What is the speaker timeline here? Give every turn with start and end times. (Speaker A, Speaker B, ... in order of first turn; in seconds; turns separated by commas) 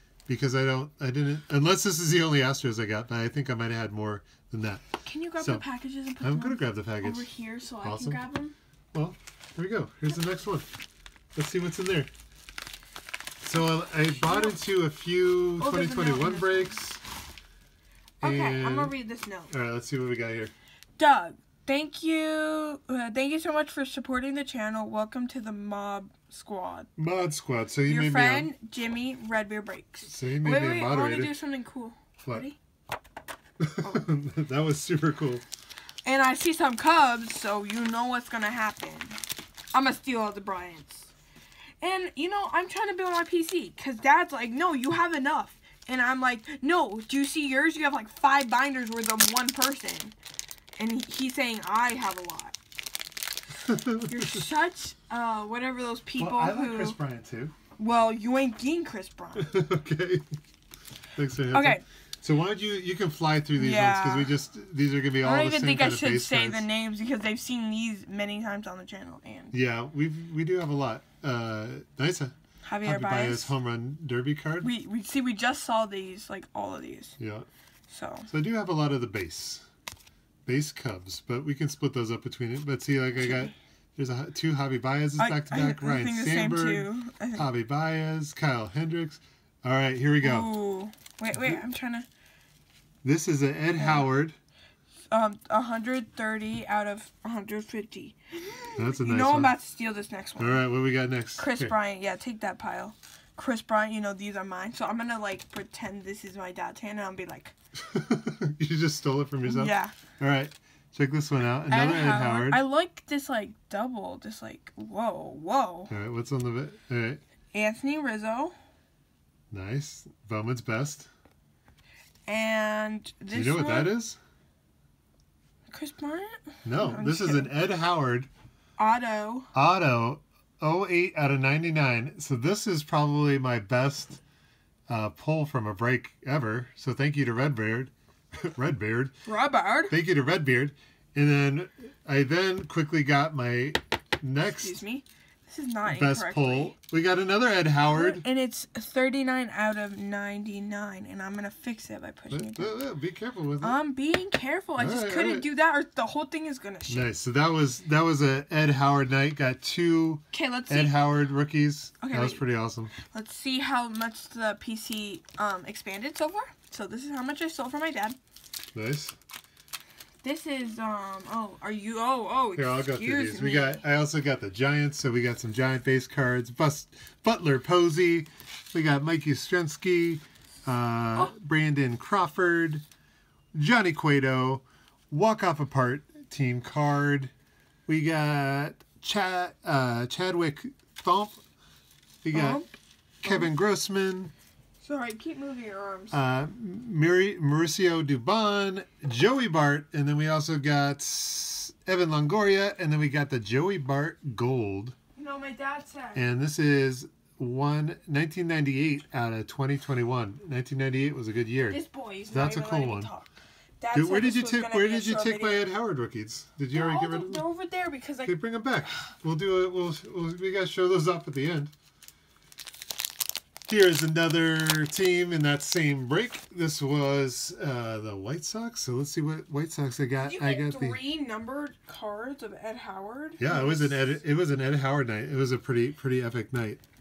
Speaker A: 0.3-4.8, Speaker B: 5.0-8.5, Speaker A: 5.4-5.6, Speaker A: 6.2-7.3, Speaker A: 7.8-8.2, Speaker A: 8.9-10.7, Speaker A: 11.3-12.1, Speaker A: 13.4-17.0, Speaker B: 14.1-14.6, Speaker B: 15.6-16.8, Speaker A: 18.2-18.9, Speaker B: 18.2-19.5, Speaker A: 19.5-20.5, Speaker B: 21.0-26.9, Speaker A: 27.0-28.5, Speaker B: 27.9-32.6, Speaker A: 30.1-31.3, Speaker A: 33.6-35.4, Speaker B: 36.0-39.2, Speaker B: 39.7-41.1, Speaker B: 41.8-50.1, Speaker B: 50.8-52.5, Speaker A: 53.6-54.4, Speaker B: 54.1-57.0, Speaker A: 56.2-57.5, Speaker B: 57.8-59.5, Speaker A: 59.4-60.4, Speaker A: 61.1-66.7, Speaker B: 61.5-61.8, Speaker B: 63.5-64.3, Speaker B: 65.2-69.5, Speaker A: 69.5-74.7, Speaker B: 72.6-73.5, Speaker B: 74.6-77.2, Speaker A: 77.2-77.5, Speaker B: 77.9-78.3, Speaker A: 78.3-79.6, Speaker A: 80.5-90.5, Speaker B: 83.2-83.5, Speaker B: 85.2-87.5, Speaker B: 90.2-92.1, Speaker A: 91.3-91.6, Speaker A: 93.0-94.3, Speaker B: 93.8-94.1, Speaker B: 95.1-100.6, Speaker A: 98.8-99.5, Speaker A: 100.4-101.7, Speaker B: 101.4-107.5, Speaker A: 107.9-112.6, Speaker B: 109.4-109.9, Speaker B: 111.7-115.9, Speaker A: 115.9-117.2, Speaker B: 117.5-118.5, Speaker A: 119.5-121.1, Speaker B: 122.3-123.9, Speaker A: 123.3-124.2, Speaker B: 125.7-127.5, Speaker A: 126.6-128.3, Speaker B: 128.8-129.5, Speaker A: 129.5-134.2, Speaker A: 134.9-139.1, Speaker B: 139.2-139.9, Speaker A: 139.9-144.8, Speaker B: 144.4-146.7, Speaker A: 145.9-148.2, Speaker B: 147.8-152.7, Speaker A: 152.3-153.8, Speaker B: 153.6-157.1, Speaker A: 154.8-155.5, Speaker A: 156.9-162.9, Speaker B: 160.3-161.0, Speaker B: 162.0-168.2, Speaker A: 168.7-169.2, Speaker B: 170.2-173.8, Speaker A: 172.6-182.8, Speaker A: 183.5-187.3, Speaker A: 187.9-191.4, Speaker A: 192.2-192.6, Speaker B: 192.3-192.7, Speaker A: 193.2-194.3, Speaker B: 193.2-193.5, Speaker B: 194.8-196.2, Speaker A: 196.1-204.9, Speaker B: 205.2-206.2, Speaker A: 206.1-213.1, Speaker B: 211.7-213.3, Speaker B: 213.8-215.7, Speaker A: 213.9-217.4, Speaker B: 216.7-218.3, Speaker A: 218.2-221.7, Speaker A: 223.7-231.0, Speaker B: 230.2-234.0, Speaker A: 233.4-236.8